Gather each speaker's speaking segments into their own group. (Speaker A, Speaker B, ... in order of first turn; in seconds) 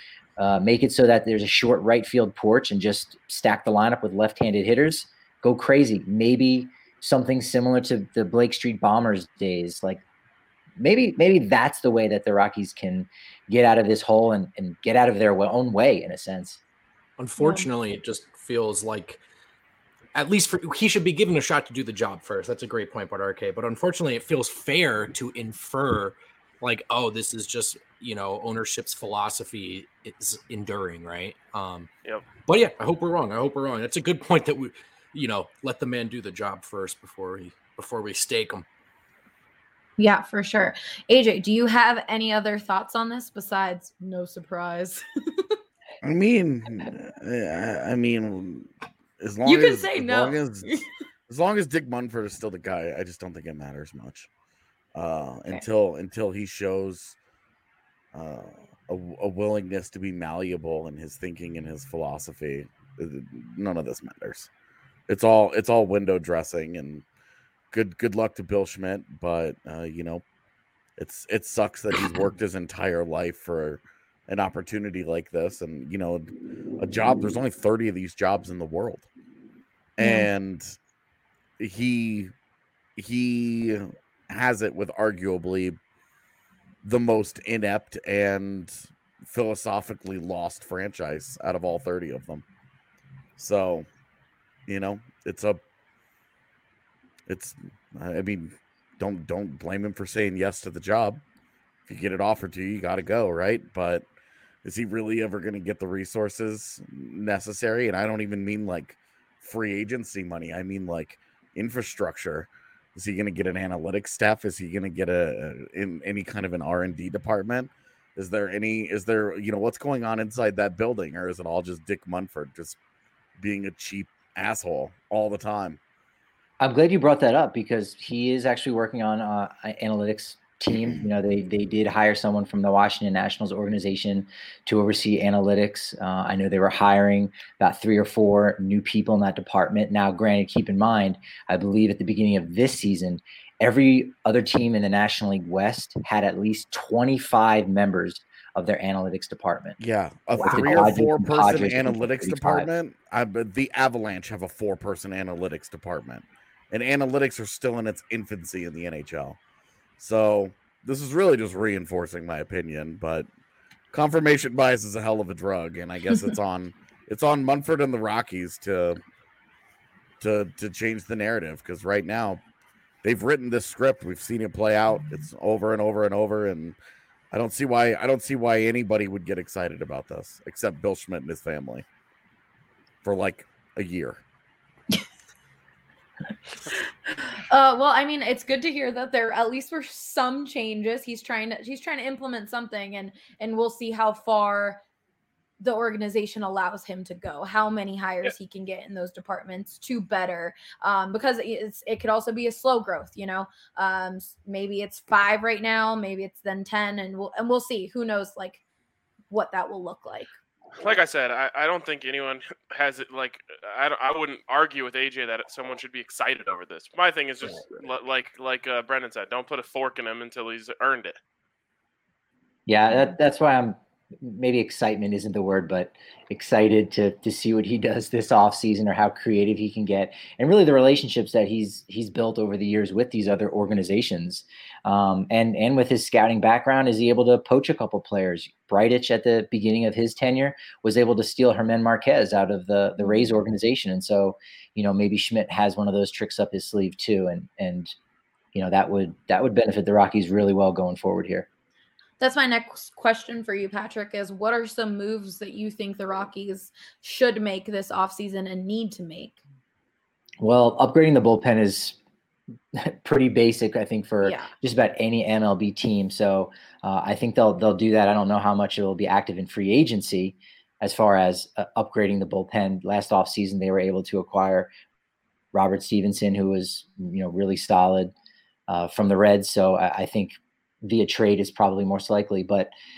Speaker A: 0.4-10.0, 10.8-16.6, 126.6-149.8, 150.3-152.7, 222.7-247.9, 248.5-251.5, 260.4-262.0, 262.7-274.7, 275.5-278.1, 278.7-282.7
Speaker B: 17.2-19.2, 20.1-38.6
Speaker C: 17.4-17.7, 40.0-45.5, 49.5-50.9, 80.0-80.3, 187.2-194.8, 195.6-208.6, 209.3-210.3, 243.0-243.3, 252.2-259.4, 264.2-264.5
Speaker D: 46.0-50.7, 51.3-54.3, 55.0-57.2, 58.1-64.5, 65.1-67.0, 67.7-70.2, 71.0-79.1, 80.0-80.8, 81.6-82.3, 83.0-85.8, 86.8-92.5, 93.4-93.9, 94.7-95.6, 97.3-101.2, 101.9-104.1, 104.6-122.8, 123.4-125.8, 149.8-159.4, 160.0-163.3, 163.9-169.0, 170.2-172.4, 173.0-176.8, 177.3-181.8, 183.0-184.2
Speaker E: 210.8-221.2